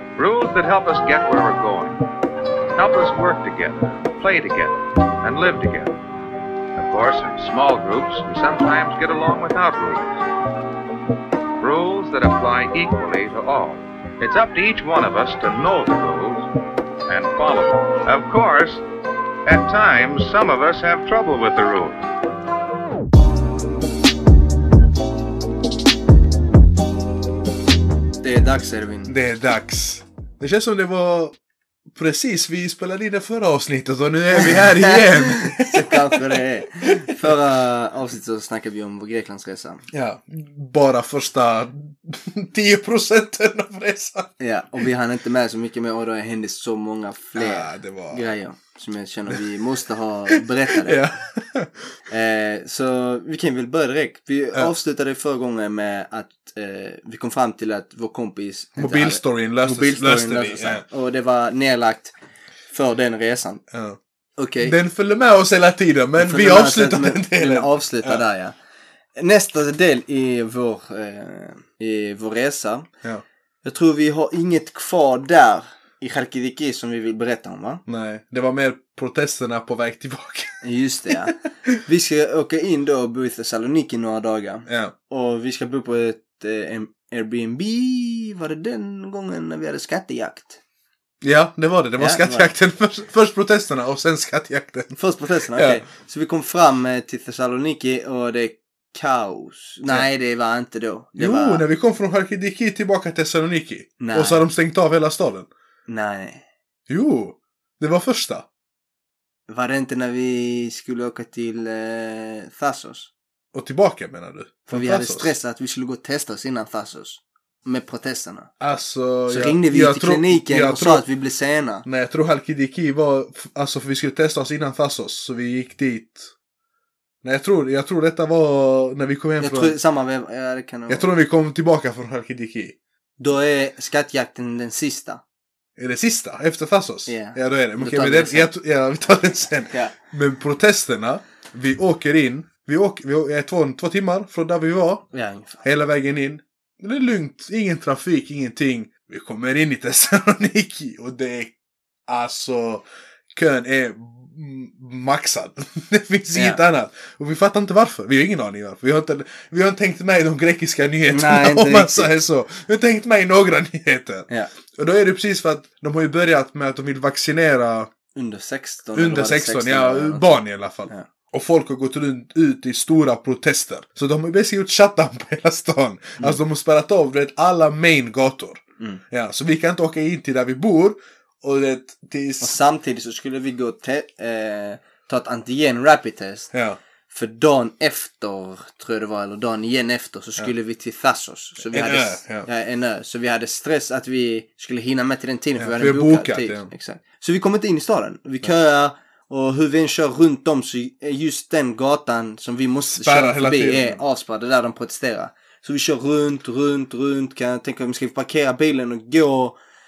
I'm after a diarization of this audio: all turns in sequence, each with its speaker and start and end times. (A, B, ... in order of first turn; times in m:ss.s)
0:00.2-0:02.0 A
0:02.8-0:06.0 A
0:06.8-0:10.2 A
0:11.6-0:16.5 A
0:17.1-0:18.8 A
0:19.4-0:22.0 A
0:28.2-0:29.1 B
0:29.1-0:31.3 C
0:31.9-0:36.4 C
0:34.3-0:39.8 B
0:37.0-0:37.3 C
0:39.9-0:44.3 C
0:44.4-0:51.0 B
0:47.4-0:48.2 C
0:50.4-0:51.7 C
0:52.1-1:02.1 B
0:58.8-1:00.8 C
1:02.7-1:03.6 B
1:03.7-1:04.0 C
1:04.4-1:04.7 B
1:04.6-1:08.2 C
1:06.2-1:08.5 B
1:09.2-1:12.9 B
1:13.6-1:17.8 B
1:17.9-1:21.3 C
1:20.6-1:21.3 B
1:21.8-1:30.6 B
1:24.7-1:24.9 C
1:31.2-1:34.9 C
1:32.0-1:32.5 B
1:34.9-1:41.6 B
1:35.5-1:35.8 C
1:41.2-1:45.5 C
1:44.0-1:44.4 B
1:45.9-1:46.4 B
1:46.9-1:48.4 C
1:49.5-1:53.1 B
1:53.5-1:55.3 C
1:54.7-1:58.5 B
1:58.6-2:01.0 C
1:59.3-2:01.8 B
2:01.8-2:06.3 C
2:07.2-2:09.8 C
2:09.4-2:11.1 B
2:10.9-2:12.7 C
2:13.2-2:15.2 B
2:15.8-2:25.0 C
2:17.1-2:18.5 B
2:25.1-2:25.6 B
2:25.6-2:31.5 C
2:32.1-2:47.9 C
2:36.3-2:36.6 B
2:41.1-2:42.1 B
2:48.1-2:50.3 B
2:49.0-3:02.5 C
3:02.4-3:06.5 B
3:06.5-3:06.8 C
3:07.1-3:29.6 B
3:11.7-3:12.5 C
3:15.6-3:16.7 C
3:22.9-3:24.0 C